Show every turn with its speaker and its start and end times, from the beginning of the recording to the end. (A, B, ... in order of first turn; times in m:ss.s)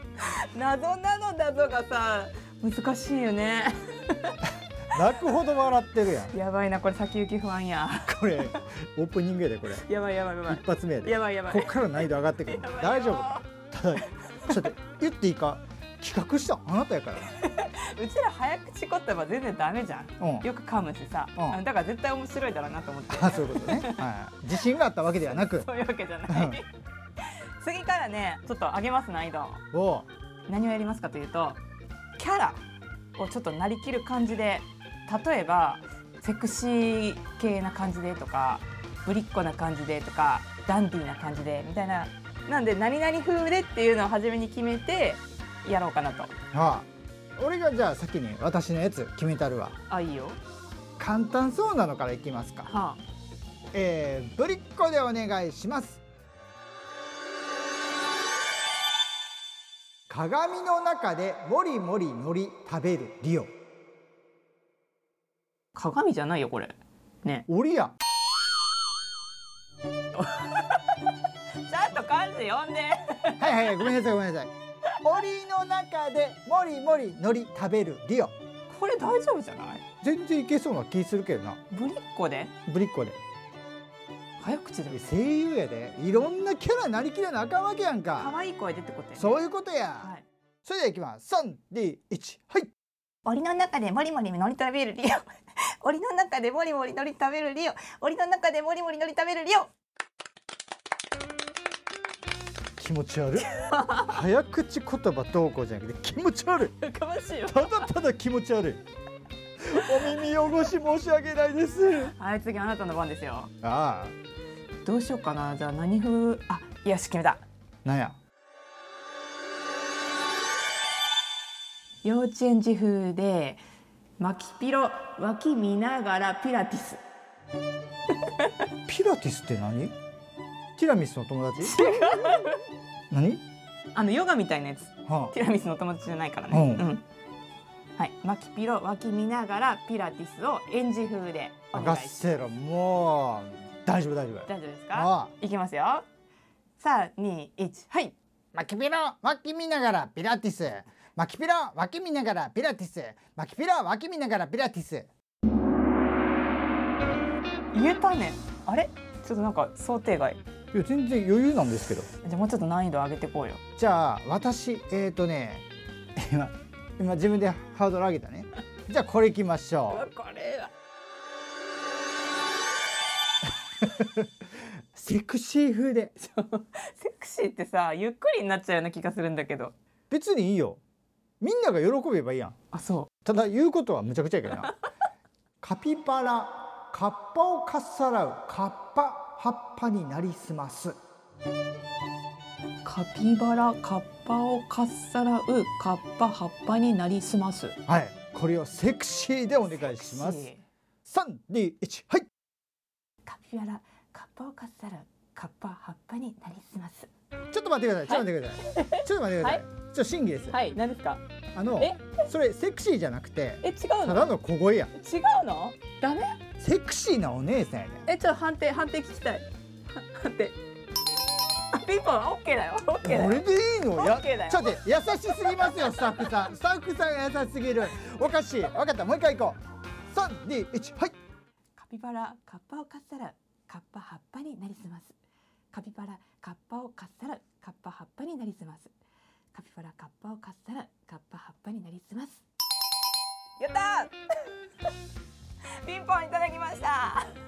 0:00.2-0:04.4 A
0:04.9-0:06.3 B
0:06.3-0:08.6 A
0:08.0-0:09.9 B
0:09.7-0:11.8 A
0:10.5-0:17.3 B
0:12.5-0:13.4 A
0:14.3-0:14.6 A
0:17.2-0:24.0 A
0:20.2-0:20.4 B
0:23.1-0:25.7 B
0:25.2-0:26.7 A
0:26.3-0:26.6 B
0:27.2-0:29.6 A
0:29.7-0:30.1 B
0:30.5-0:31.6 A
0:32.2-0:32.6 A
0:33.2-0:46.3 A
0:46.5-0:49.8 B
0:49.9-0:50.4 A
0:51.0-0:52.7 B
0:52.7-0:53.0 A
0:53.7-0:56.0 B
1:00.1-1:03.5 B
1:05.8-1:07.4 A
1:07.5-1:07.9 B
1:10.1-1:11.1 A
1:11.7-1:13.9 A
1:13.4-1:18.3 B
1:18.7-1:19.8 A
1:20.0-1:21.6 B
1:21.7-1:22.5 A
1:22.7-1:23.2 B
1:24.4-1:25.1 A
1:24.9-1:28.3 B
1:28.2-1:29.4 A
1:29.2-1:30.1 B
1:30.6-1:32.7 B
1:33.2-1:39.7 A
1:42.8-1:43.5 B
1:43.4-1:44.2 A
1:44.0-1:46.7 B
1:46.8-1:47.9 A
1:47.5-1:48.8 B
1:49.6-1:52.1 B
1:52.1-1:53.5 A
1:53.6-1:54.1 B
1:54.8-1:57.4 A
1:57.8-1:58.2 B
2:02.0-2:03.6 A
2:04.2-2:07.0 A
2:08.9-2:09.9 B
2:10.8-2:11.8 B
2:11.6-2:12.6 A
2:13.1-2:13.4 B
2:13.9-2:17.0 A
2:15.1-2:15.3 B
2:16.5-2:16.9 B
2:18.0-2:22.2 A
2:21.7-2:25.3 B
2:24.5-2:26.0 A
2:26.8-2:28.2 A
2:28.5-2:35.1 B
2:37.7-2:40.4 A
2:40.7-2:42.1 B
2:42.2-2:43.6 A
2:43.8-2:45.7 B
2:46.2-2:50.1 B
2:49.9-2:50.7 A
2:53.8-2:54.3 B
2:54.9-2:56.1 B
2:56.2-2:59.7 A
3:00.1-3:00.8 B
3:01.4-3:02.6 B
3:02.7-3:03.1 A
3:03.2-3:04.7 B
3:05.6-3:10.9 B
3:12.8-3:17.8 A
3:17.9-3:20.5 B
3:19.8-3:20.6 A
3:21.0-3:22.3 B
3:23.3-3:27.1 A
3:27.5-3:30.6 B
3:28.1-3:29.6 A
3:30.5-3:31.2 A
3:31.6-3:34.9 B
3:31.8-3:32.2 A
3:33.6-3:34.3 A
3:34.9-3:36.4 A
3:36.6-3:38.1 B
3:38.1-3:40.6 A
3:41.7-3:43.4 A
3:43.0-3:49.6 B
3:43.9-3:46.3 A
3:50.1-3:51.2 B
3:51.8-3:55.2 A
3:55.7-3:58.9 A
3:59.5-4:02.4 A
4:03.6-4:04.1 A
4:05.8-4:07.3 A